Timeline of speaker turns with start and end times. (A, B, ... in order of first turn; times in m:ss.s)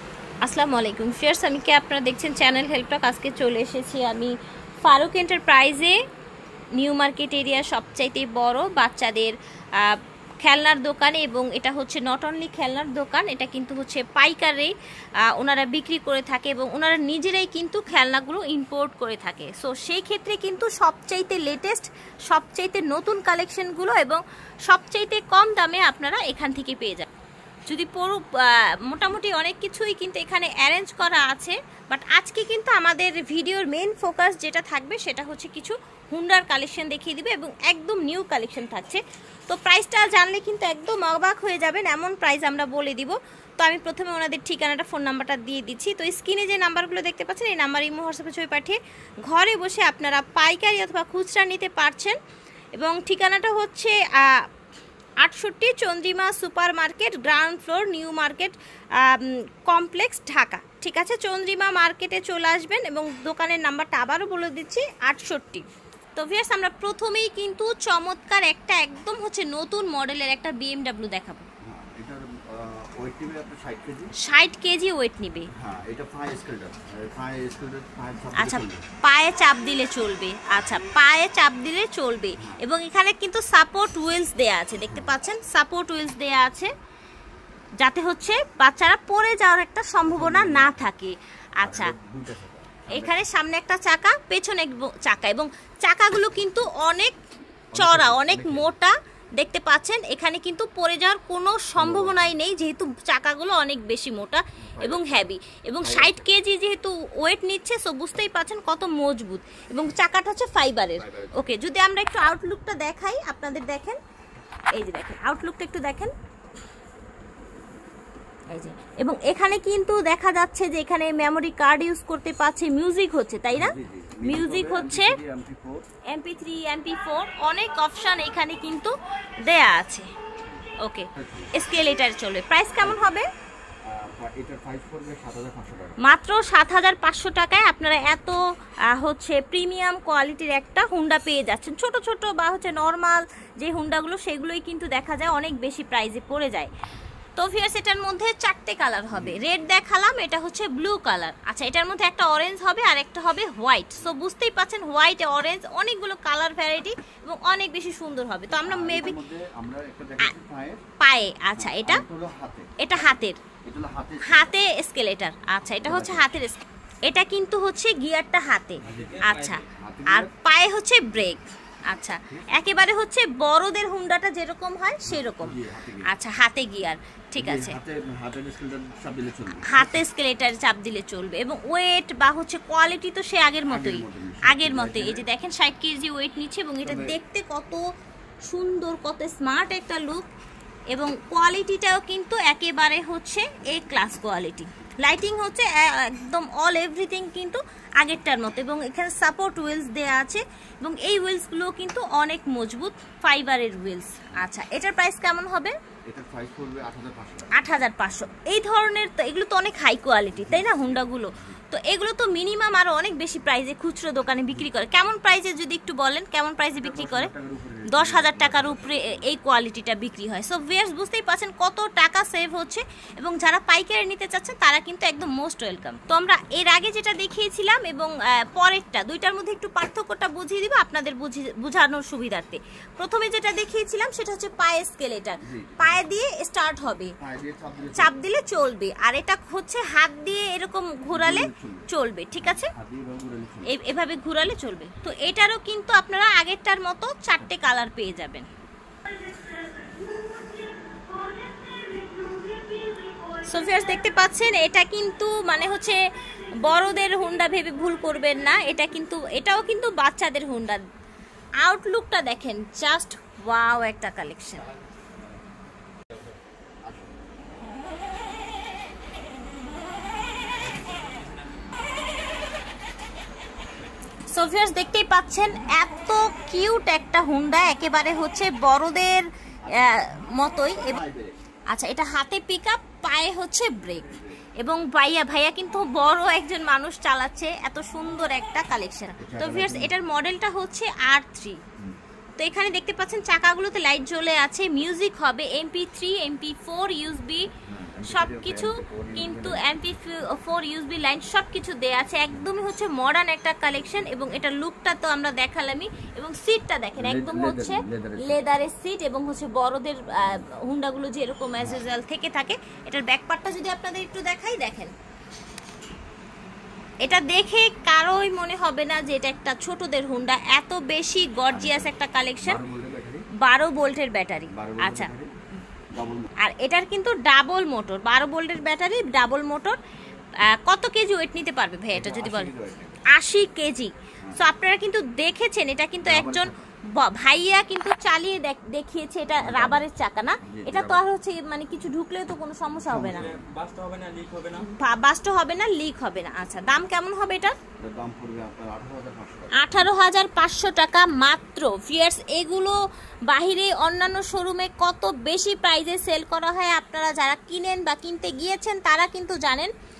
0:00.4-0:06.0 A
0:06.7-0:14.7 A
0:15.3-0:27.1 A
0:27.7-0:52.2 A
0:52.7-0:54.5 A
0:55.2-1:11.4 A
1:11.6-1:14.1 B
1:14.2-1:15.5 A
1:15.5-1:18.9 B
1:18.3-1:26.7 A
1:22.4-1:22.6 B
1:24.8-1:25.2 B
1:27.8-1:31.9 A
1:30.0-1:30.9 B
1:31.6-1:33.3 B
1:32.9-1:37.2 A
1:37.7-1:38.7 B
1:37.7-1:54.0 A
1:41.8-1:42.3 B
1:44.7-1:45.1 B
1:45.8-1:46.3 B
1:51.0-1:51.6 B
1:54.7-1:56.1 A
1:58.5-2:05.2 A
2:03.5-2:05.8 B
2:06.1-2:10.1 A
2:10.4-2:11.6 B
2:10.8-2:13.3 A
2:12.8-2:13.0 B
2:13.8-2:16.0 B
2:16.0-2:26.7 A
2:27.4-2:39.2 A
2:29.1-2:29.4 B
2:38.5-2:40.8 B
2:41.0-2:42.0 A
2:41.5-2:44.5 B
2:42.8-2:43.4 A
2:44.2-2:57.8 A
2:45.7-2:46.4 B
2:48.8-2:50.3 B
2:48.9-2:49.6 C
2:52.2-2:52.7 B
2:55.0-2:56.1 B
2:57.4-3:00.0 B
2:59.6-3:07.8 A
3:03.7-3:05.2 B
3:06.8-3:07.2 B
3:08.4-3:10.2 A
3:10.9-3:25.8 A
3:26.0-3:27.7 B
3:27.5-3:37.3 A
3:30.3-3:31.6 B
3:36.8-3:39.4 B
3:37.9-3:57.1 A
3:55.4-3:56.1 B
3:57.2-3:58.3 B
3:57.9-4:02.7 A
4:01.1-4:03.7 B
4:03.7-4:08.4 A
4:09.3-4:16.0 A
4:16.6-4:20.8 A
4:21.6-4:24.7 A
4:24.9-4:25.3 B
4:26.1-4:27.2 B
4:34.3-4:41.0 A
4:39.6-4:41.4 B
4:41.7-4:51.6 A
4:44.0-4:44.4 B
4:49.2-4:49.9 B
4:52.4-4:57.5 A
4:57.6-4:59.7 B
4:58.0-5:14.9 A
5:07.0-5:08.4 B
5:11.6-5:11.9 B
5:17.0-5:22.6 A
5:21.5-5:23.2 B
5:23.4-5:25.1 A
5:24.5-5:25.3 B
5:25.9-5:26.3 B
5:26.4-5:29.8 A
5:30.4-5:32.5 A
5:31.9-5:33.0 B
5:33.1-5:43.4 A
5:36.0-5:36.6 B
5:39.3-5:39.9 B
5:40.4-5:41.0 B
5:42.7-5:43.5 B
5:43.3-5:44.7 C
5:44.5-5:47.6 A
5:47.8-5:49.8 B
5:49.5-5:59.7 A